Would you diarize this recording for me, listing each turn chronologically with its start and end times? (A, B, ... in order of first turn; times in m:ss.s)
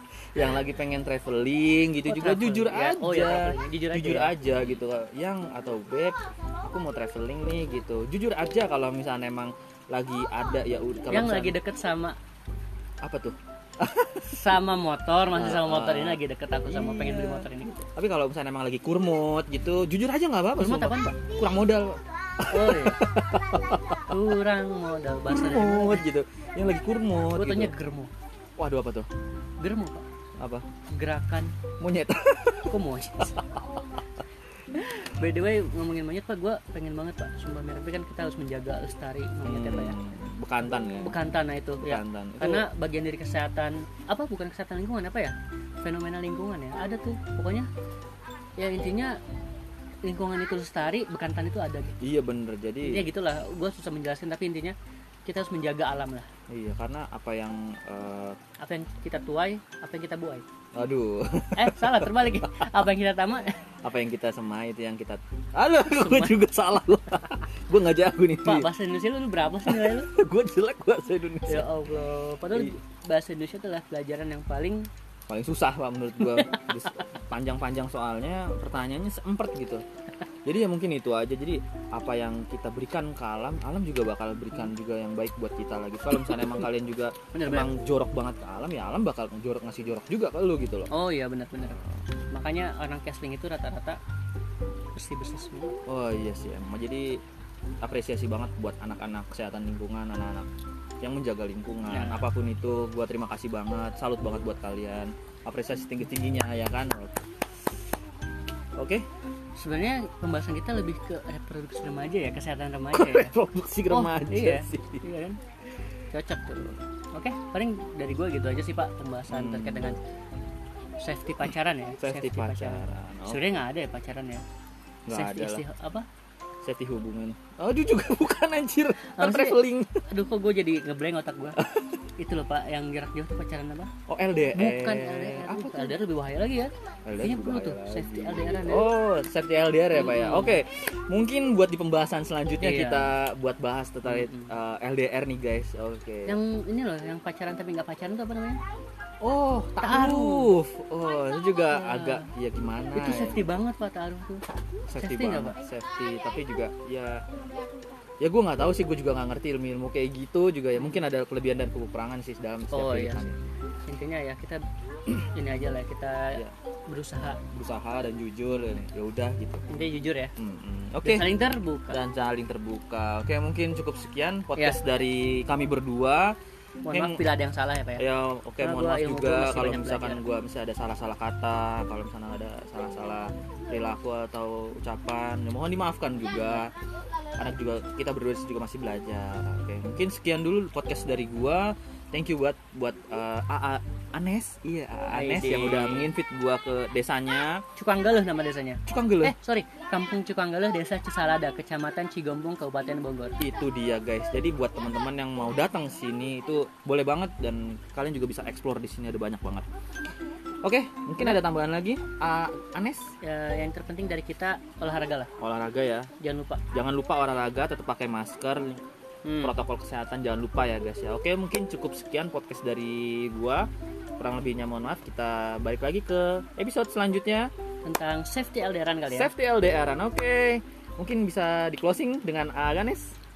0:00.3-0:11.6 A
0:02.1-0:04.3 B
0:11.1-0:12.2 B
0:13.0-0:14.5 A
0:14.3-0:17.8 B
0:15.3-0:24.4 A
0:20.6-0:21.2 B
0:22.5-0:23.0 B
0:24.0-0:26.0 B
0:25.3-0:27.7 A
0:27.3-0:28.1 B
0:28.6-0:29.1 A
0:29.6-0:30.0 B
0:30.4-0:30.6 A
0:30.9-0:31.6 B
0:31.8-0:34.0 A
0:32.7-0:33.4 B
0:34.7-0:40.0 B
0:39.4-0:41.2 A
0:41.0-0:47.7 B
0:41.8-0:42.7 A
0:48.6-0:49.2 B
0:50.0-0:52.0 B
0:52.0-0:53.1 A
0:52.8-0:56.3 B
0:56.5-0:58.4 A
0:58.6-1:00.4 B
1:00.7-1:02.6 A
1:01.6-1:03.7 B
1:03.8-1:08.7 A
1:05.9-1:06.4 B
1:08.4-1:10.1 B
1:09.6-1:11.7 A
1:11.5-1:14.9 B
1:12.5-1:12.8 A
1:15.3-1:19.8 A
1:16.2-1:16.7 B
1:20.4-1:30.9 A
1:26.2-1:26.5 B
1:27.3-1:27.7 B
1:30.9-1:31.8 B
1:31.6-1:32.0 A
1:32.3-1:34.0 B
1:34.9-1:35.8 B
1:35.9-1:37.2 A
1:37.8-1:40.5 A
1:41.0-1:47.7 A
1:41.9-1:42.3 B
1:48.7-1:49.0 A
1:49.6-1:53.3 B
1:52.9-1:55.0 A
1:53.9-1:55.4 B
1:56.1-2:00.0 B
1:59.3-2:00.0 A
2:01.0-2:04.4 B
2:02.0-2:03.4 A
2:05.1-2:05.6 A
2:05.1-2:06.0 B
2:06.6-2:10.0 A
2:09.0-2:11.6 B
2:11.6-2:12.0 A
2:12.2-2:13.9 B
2:14.1-2:16.0 A
2:14.5-2:18.9 B
2:17.0-2:26.4 A
2:19.9-2:20.6 B
2:22.6-2:23.1 B
2:24.0-2:24.5 B
2:26.2-2:28.6 B
2:29.2-2:33.5 A
2:29.8-2:30.5 B
2:31.7-2:32.3 B
2:32.9-2:34.4 B
2:34.9-2:37.2 A
2:35.0-2:35.6 B
2:38.2-2:43.4 A
2:42.7-2:43.3 B
2:43.8-2:47.4 B
2:47.5-2:49.6 A
2:49.7-2:50.3 B
2:50.4-2:51.3 A
2:51.0-2:52.0 B
2:51.9-2:56.3 A
2:56.8-2:58.0 B
2:56.9-2:57.2 A
2:58.0-3:06.7 A
2:58.6-3:00.2 B
3:07.3-3:17.6 A
3:15.1-3:16.1 B
3:17.8-3:23.4 B
3:18.8-3:19.3 A
3:23.4-3:29.7 A
3:30.6-3:33.1 A
3:33.2-3:35.3 B
3:35.4-3:36.1 A
3:36.2-3:36.6 B
3:36.7-3:38.8 A
3:39.2-3:39.5 B
3:39.4-3:43.7 A
3:44.2-3:47.5 A
3:47.8-3:49.3 B
3:49.1-3:53.2 A